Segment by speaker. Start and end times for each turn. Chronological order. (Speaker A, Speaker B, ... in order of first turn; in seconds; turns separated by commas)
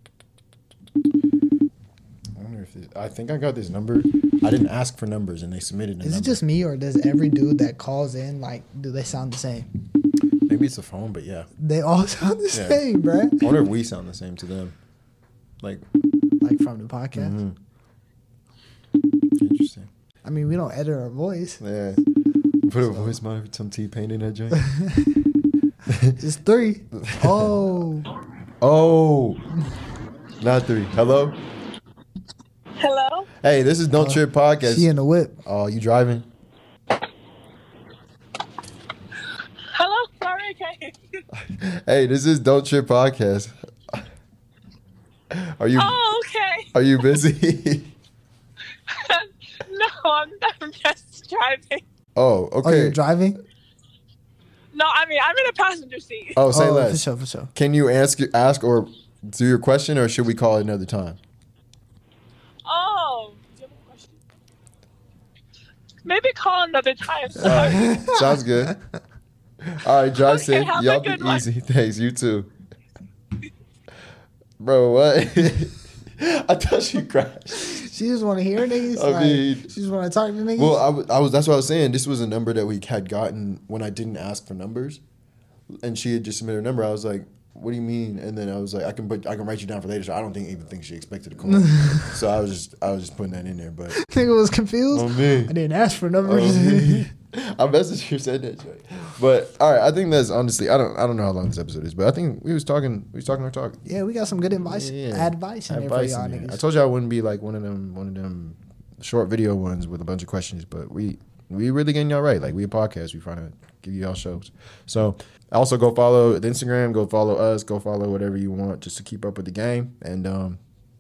Speaker A: 2.4-6.4, Speaker B: 6.0-9.7, Speaker A: 10.5-11.5, Speaker B: 11.6-13.5, Speaker A: 12.5-12.8, Speaker A: 13.4-14.8, Speaker B: 16.4-17.4, Speaker A: 17.1-17.6, Speaker A: 19.4-19.9, Speaker B: 20.2-21.6, Speaker A: 21.6-22.0, Speaker A: 22.6-24.7, Speaker B: 24.6-25.1, Speaker A: 25.9-26.2, Speaker B: 26.2-28.1, Speaker A: 26.9-27.8, Speaker A: 28.6-29.5, Speaker A: 30.4-31.4, Speaker C: 32.8-33.3, Speaker A: 33.4-34.9, Speaker B: 34.0-35.4, Speaker A: 35.5-36.3, Speaker C: 39.7-41.2, Speaker A: 41.3-44.1, Speaker A: 45.3-46.0, Speaker C: 45.8-46.7, Speaker A: 46.7-48.0, Speaker C: 48.9-51.8, Speaker A: 52.2-53.0, Speaker B: 52.6-53.4, Speaker C: 54.7-56.4, Speaker A: 56.3-57.0, Speaker B: 56.5-57.5, Speaker A: 57.5-61.2, Speaker C: 62.7-64.2, Speaker C: 66.0-67.9, Speaker A: 67.4-68.8, Speaker B: 67.5-68.4, Speaker A: 69.6-72.5, Speaker C: 70.2-71.5, Speaker A: 74.6-77.9, Speaker B: 77.5-80.8, Speaker A: 78.9-79.8, Speaker A: 80.6-85.0, Speaker A: 85.7-94.0, Speaker B: 91.5-92.2, Speaker B: 93.9-97.1, Speaker A: 94.9-95.5, Speaker A: 96.2-103.8, Speaker B: 103.9-106.6, Speaker A: 104.7-120.6